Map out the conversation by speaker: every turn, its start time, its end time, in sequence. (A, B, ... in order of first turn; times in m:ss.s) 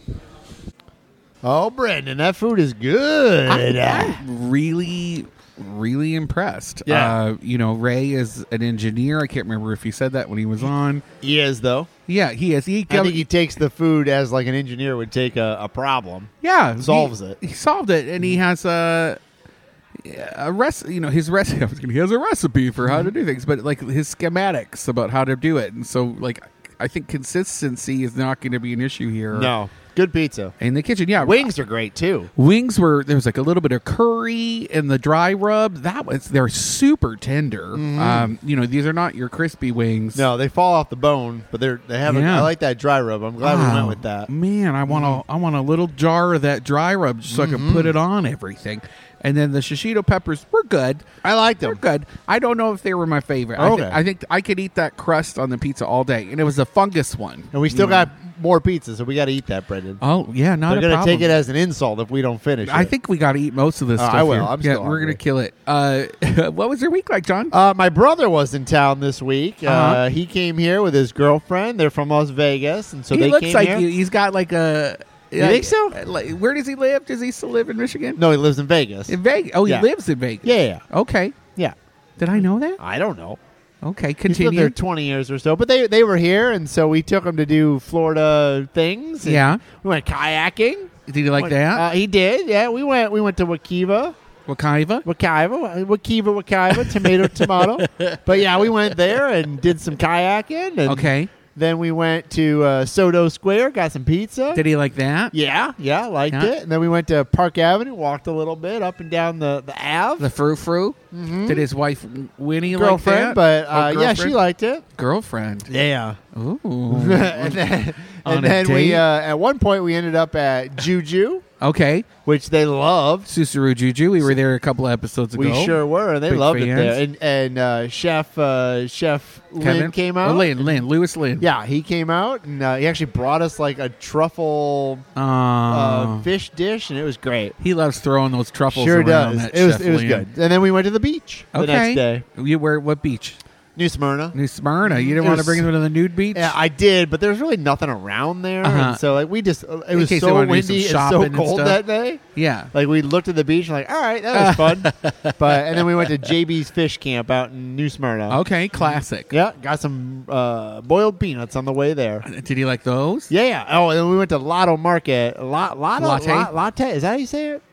0:01.4-0:04.2 A
0:03.5-0:11.0 B
0:06.8-0:07.1 A
0:11.2-0:11.9 A
0:12.1-0:13.3 B
0:12.9-0:17.4 A
0:16.4-0:19.2 B
0:20.0-0:29.5 B
0:22.8-0:23.1 A
0:29.3-0:30.5 A
0:30.6-0:31.5 B
0:31.2-0:32.3 A
0:32.4-0:40.2 B
0:37.7-0:38.3 A
0:40.1-0:44.3 A
0:42.1-0:42.5 B
0:43.4-0:51.0 B
0:44.9-0:45.2 A
0:47.3-0:47.9 A
0:51.2-0:51.8 A
0:51.6-0:58.1 B
0:53.6-0:54.0 A
0:57.5-1:00.0 A
1:00.0-1:01.4 B
1:00.7-1:02.9 A
1:02.7-1:07.5 B
1:04.0-1:05.2 A
1:07.5-1:13.9 A
1:09.6-1:10.0 B
1:13.1-1:18.2 B
1:15.4-1:16.0 A
1:18.2-1:19.9 A
1:19.1-1:21.4 B
1:20.4-1:20.8 A
1:22.2-1:22.8 B
1:22.8-1:23.4 A
1:23.8-1:24.7 B
1:24.2-1:34.1 A
1:29.2-1:29.6 B
1:31.1-1:31.8 B
1:34.5-1:35.0 B
1:35.0-1:44.6 A
1:36.8-1:38.9 B
1:40.8-1:41.3 B
1:44.5-1:45.3 B
1:45.3-1:50.3 A
1:50.2-1:54.4 B
1:51.1-1:51.6 A
1:52.7-1:54.8 A
1:55.0-1:55.7 B
1:55.7-1:56.2 A
1:56.3-1:57.6 B
1:56.9-2:01.4 A
1:58.2-1:59.0 B
2:01.6-2:02.1 B
2:02.2-2:03.3 A
2:03.3-2:07.0 B
2:05.4-2:10.8 A
2:09.6-2:11.5 B
2:11.4-2:15.0 A
2:15.2-2:16.3 B
2:15.7-2:17.6 A
2:17.6-2:20.2 B
2:18.7-2:22.2 A
2:21.5-2:23.4 B
2:23.8-2:25.7 A
2:24.3-2:26.6 B
2:26.3-2:32.2 A
2:28.6-2:29.0 B
2:29.9-2:31.8 B
2:32.3-2:32.7 B
2:32.7-2:42.2 A
2:34.3-2:36.3 B
2:38.3-2:39.3 B
2:42.2-2:43.3 B
2:43.3-2:47.6 A
2:46.0-2:46.5 B